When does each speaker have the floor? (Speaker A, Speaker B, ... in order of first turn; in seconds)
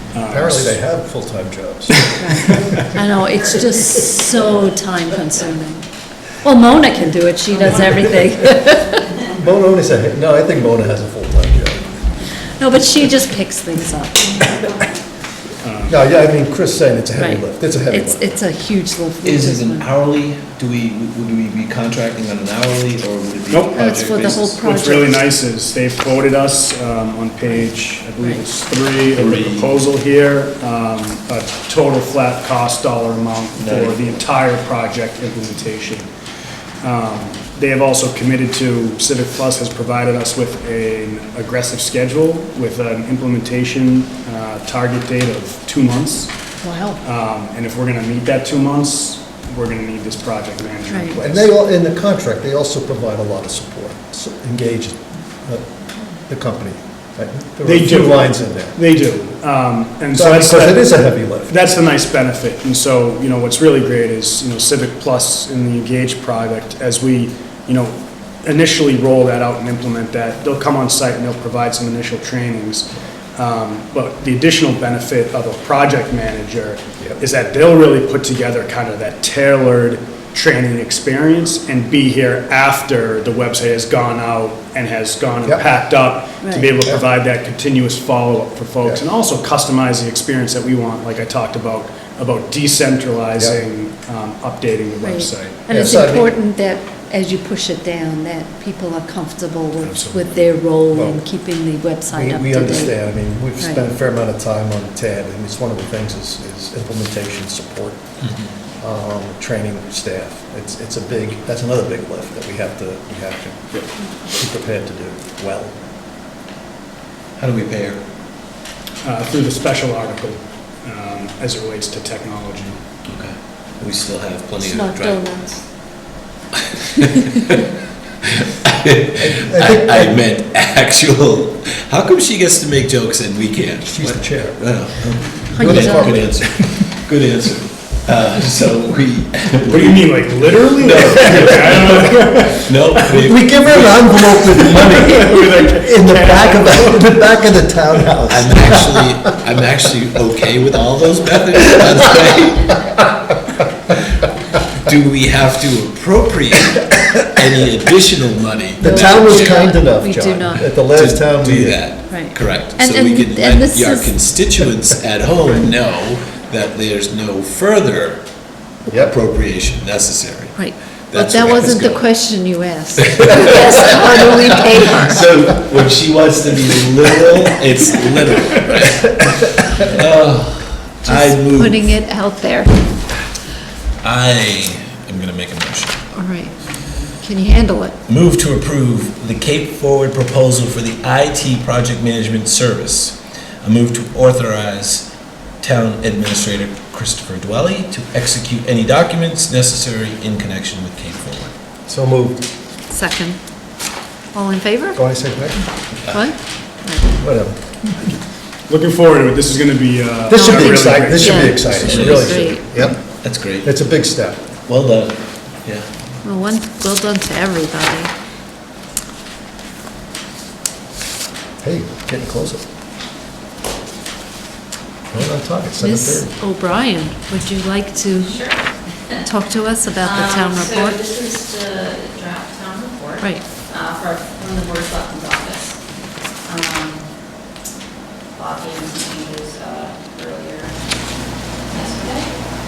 Speaker A: 0.1-0.8, 15.6-16.0, 23.5-23.8, 24.6-36.1, 36.8-46.3, 47.0-51.5, 57.6-60.9, 61.5-95.7, 99.8-100.5, 119.0-122.8, 139.7-143.0, 145.0-146.9, 208.7-211.8
Speaker B: 0.3-2.7, 7.9-8.2, 9.3-11.9, 15.9-18.4, 51.2-55.6, 56.3-58.8, 60.1-61.5, 95.7-96.3, 100.9-101.2, 102.1-108.0, 108.8-115.7, 129.2-130.2, 133.8-134.6, 135.6-136.7, 143.1-149.0, 158.8-161.9, 168.9-169.1, 201.9-202.4, 205.0-205.6, 207.2-207.6, 210.3-213.0, 213.6-214.4, 221.6-222.6, 225.1-226.3
Speaker C: 2.2-5.8, 6.4-9.1, 12.6-14.4, 17.2-19.9, 23.7-25.2, 46.6-47.0, 86.4-86.7, 95.0-103.0, 124.6-125.6, 135.6-136.2, 158.8-160.7, 162.1-164.2, 170.6-175.3, 181.1-182.7, 186.1-186.6, 187.2-188.0, 202.9-203.4, 204.3-205.0, 206.1-207.2, 210.3-212.9, 216.2-218.1, 225.8-228.4, 229.2-231.0, 233.2-233.5
Speaker D: 4.0-4.3, 228.3-228.6, 230.0-235.8, 236.4-237.1, 238.3-240.8, 241.7-242.3
Speaker E: 19.2-24.6, 29.1-29.8, 33.6-34.2, 108.2-108.5, 117.4-118.0, 123.1-125.3, 126.7-127.6, 128.2-144.6, 148.3-153.0, 154.8-159.4, 160.7-168.2, 168.9-172.1, 173.0-181.9, 184.0-186.1, 188.1-201.5, 211.7-213.7, 214.7-215.9